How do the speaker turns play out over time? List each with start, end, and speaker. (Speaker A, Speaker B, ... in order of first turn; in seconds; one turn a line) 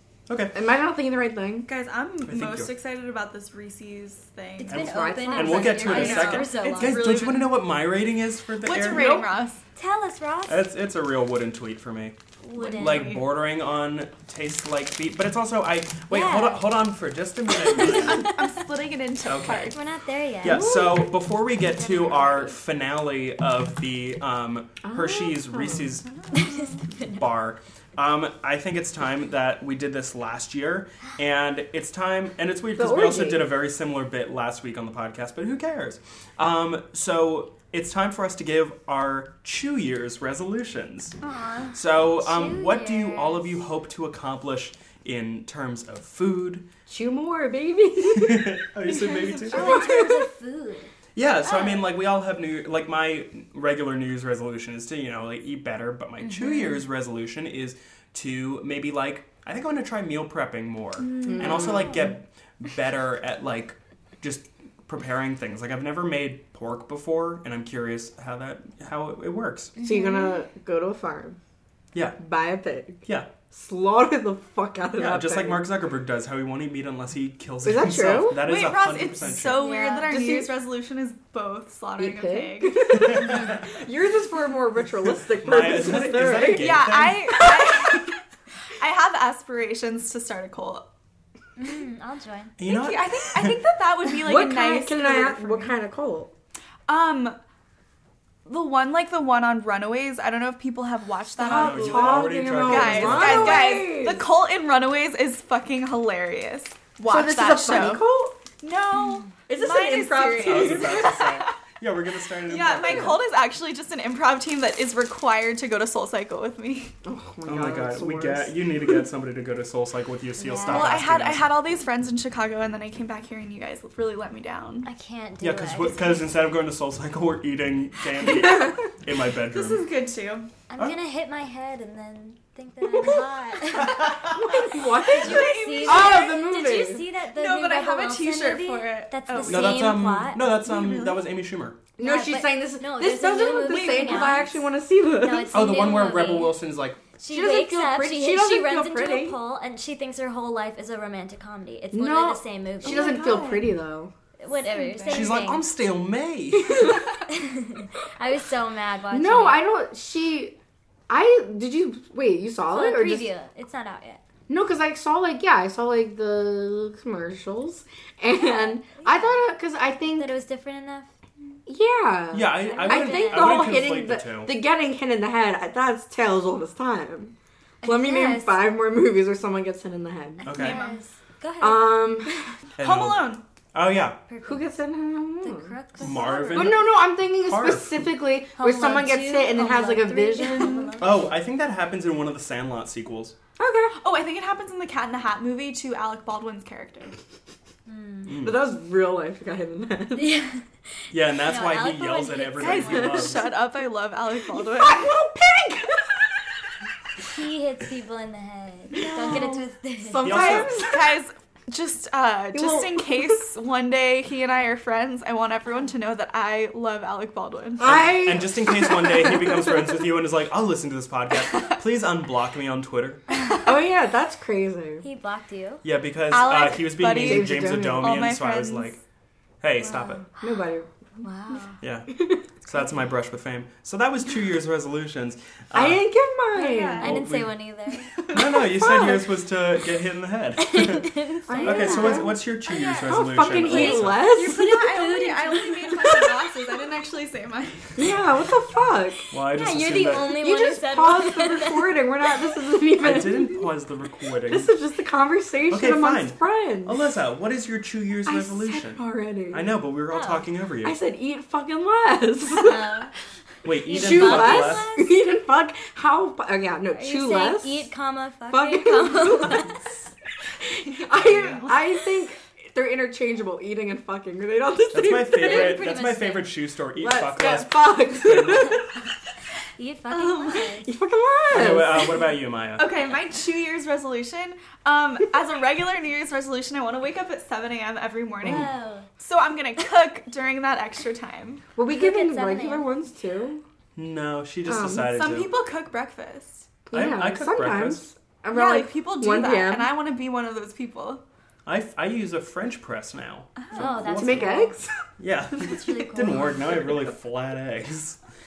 Speaker A: 0.3-0.6
Speaker B: 0.5-1.7
Speaker C: 1.7-4.9
Speaker A: 2.2-2.7
Speaker D: 4.6-7.1
Speaker B: 4.7-6.1
Speaker A: 4.7-9.2
Speaker C: 5.8-7.6
Speaker C: 8.6-9.6
Speaker B: 8.8-9.3
Speaker D: 9.8-10.7
Speaker A: 10.5-12.2
Speaker D: 12.4-13.2
Speaker C: 12.6-13.3
Speaker A: 12.7-18.4
Speaker D: 16.1-16.9
Speaker D: 17.8-18.3
Speaker C: 17.8-19.8
Speaker A: 19.2-19.8
Speaker D: 19.7-20.8
Speaker A: 20.4-26.1
Speaker B: 20.5-21.0
Speaker B: 24.8-25.9
Speaker D: 26.4-27.2
Speaker A: 27.0-41.2
Speaker B: 32.8-33.5
Speaker C: 41.2-41.7
Speaker A: 41.7-46.7
Speaker D: 42.1-43.6
Speaker B: 46.9-48.7
Speaker A: 48.1-49.8
Speaker D: 49.5-50.9
Speaker B: 49.5-50.3
Speaker A: 51.1-69.8
Speaker D: 56.2-56.8
Speaker C: 61.1-61.8
Speaker B: 61.2-62.0
Speaker D: 69.8-70.3
Speaker B: 69.8-71.4
Speaker A: 71.9-72.2
Speaker B: 72.2-75.7
Speaker A: 73.1-73.3
Speaker A: 75.0-79.7
Speaker B: 77.6-78.5
Speaker C: 78.3-83.2
Speaker D: 79.5-80.2
Speaker B: 80.0-80.5
Speaker B: 82.0-88.0
Speaker A: 83.0-83.6
Speaker A: 85.3-87.5
Speaker C: 86.4-88.2
Speaker C: 88.8-90.9
Speaker D: 91.6-92.6
Speaker A: 92.6-93.6
Speaker C: 92.6-95.7
Speaker B: 94.1-96.3
Speaker C: 96.9-97.4
Speaker C: 98.5-108.0
Speaker B: 101.4-104.2
Speaker A: 101.4-103.7
Speaker B: 107.1-108.4
Speaker C: 108.6-111.5
Speaker B: 109.5-111.2
Speaker A: 110.4-113.2
Speaker C: 112.5-116.9
Speaker B: 117.0-118.5
Speaker A: 117.5-121.6
Speaker D: 120.4-121.1
Speaker C: 120.6-124.9
Speaker D: 124.8-126.3
Speaker A: 125.4-129.9
Speaker C: 129.5-130.5
Speaker D: 130.7-134.3
Speaker A: 133.8-134.4
Speaker B: 134.2-137.1
Speaker C: 135.0-136.4
Speaker D: 135.1-140.6
Speaker C: 137.3-140.0
Speaker A: 139.4-141.8
Speaker C: 140.6-141.2
Speaker B: 142.0-145.8
Speaker D: 142.0-146.6
Speaker C: 143.6-144.5
Speaker A: 145.5-147.0
Speaker D: 147.2-153.2
Speaker B: 147.3-149.4
Speaker B: 151.9-154.1
Speaker C: 152.8-153.7
Speaker D: 154.4-155.7
Speaker C: 154.7-155.4
Speaker A: 155.1-157.0
Speaker B: 156.6-156.9
Speaker D: 157.2-159.6
Speaker B: 159.1-160.6
Speaker B: 161.1-163.3
Speaker D: 162.7-164.2
Speaker B: 164.5-170.3
Speaker D: 168.4-169.4
Speaker D: 170.1-171.1
Speaker B: 171.7-180.6
Speaker A: 172.3-174.6
Speaker D: 172.5-173.8
Speaker D: 177.8-178.6
Speaker D: 180.4-182.4
Speaker A: 180.4-180.8
Speaker C: 180.5-181.0
Speaker B: 181.6-182.3
Speaker A: 182.8-184.2
Speaker C: 182.8-183.4
Speaker D: 184.3-184.8
Speaker B: 184.4-185.8
Speaker D: 185.4-186.7
Speaker A: 186.0-188.1
Speaker C: 186.0-186.7
Speaker B: 186.5-191.0
Speaker D: 188.6-191.3
Speaker A: 191.0-193.3
Speaker B: 193.6-194.0
Speaker C: 194.0-197.2
Speaker D: 197.9-198.4
Speaker A: 198.3-198.7
Speaker B: 198.3-200.3
Speaker D: 200.2-203.3
Speaker A: 201.1-203.5
Speaker C: 202.6-205.1
Speaker B: 202.8-203.3
Speaker B: 204.5-206.7
Speaker D: 207.2-210.4
Speaker B: 208.9-211.2
Speaker C: 209.0-209.6
Speaker C: 210.1-217.9
Speaker A: 210.2-210.8
Speaker B: 212.5-213.4
Speaker B: 217.8-219.9
Speaker A: 217.8-223.2
Speaker B: 223.6-225.0
Speaker D: 225.0-225.8
Speaker A: 225.8-229.0
Speaker C: 226.3-229.0
Speaker B: 227.2-228.3
Speaker A: 229.6-230.3
Speaker D: 229.8-230.5
Speaker B: 230.4-230.9
Speaker D: 231.2-231.8
Speaker A: 231.8-236.1
Speaker B: 232.1-232.4
Speaker B: 235.7-237.1
Speaker C: 236.5-237.2
Speaker D: 237.0-238.3
Speaker A: 237.0-237.6
Speaker B: 238.2-239.3
Speaker A: 238.3-244.3
Speaker D: 240.6-246.5
Speaker B: 241.5-242.4
Speaker B: 243.1-244.7
Speaker C: 244.2-248.0
Speaker B: 247.9-249.2
Speaker D: 249.3-252.4
Speaker A: 249.3-250.4
Speaker B: 250.1-253.7
Speaker A: 253.0-254.7
Speaker B: 254.5-257.0
Speaker A: 255.7-259.0
Speaker B: 258.3-259.7
Speaker A: 259.5-261.0
Speaker D: 260.1-260.5
Speaker B: 260.8-262.9
Speaker D: 262.5-263.1
Speaker A: 263.6-264.9
Speaker D: 263.9-265.2
Speaker B: 263.9-267.9
Speaker D: 266.9-269.9
Speaker B: 268.5-270.0
Speaker B: 270.6-275.9
Speaker C: 270.9-271.9
Speaker A: 274.9-278.8
Speaker D: 275.3-276.5
Speaker B: 277.0-279.1
Speaker D: 279.8-280.9
Speaker C: 280.1-280.7
Speaker B: 280.8-282.2
Speaker A: 281.5-282.9
Speaker C: 282.8-291.6
Speaker D: 288.4-289.1
Speaker B: 291.8-293.6
Speaker D: 291.9-292.9
Speaker A: 294.0-295.5
Speaker B: 294.7-295.1
Speaker C: 295.0-296.7
Speaker B: 296.9-299.9
Speaker A: 296.9-298.1
Speaker C: 298.5-301.2
Speaker A: 301.7-304.7
Speaker C: 303.6-303.8
Speaker D: 303.7-304.8
Speaker B: 304.2-304.9
Speaker A: 305.2-308.2
Speaker D: 305.6-306.9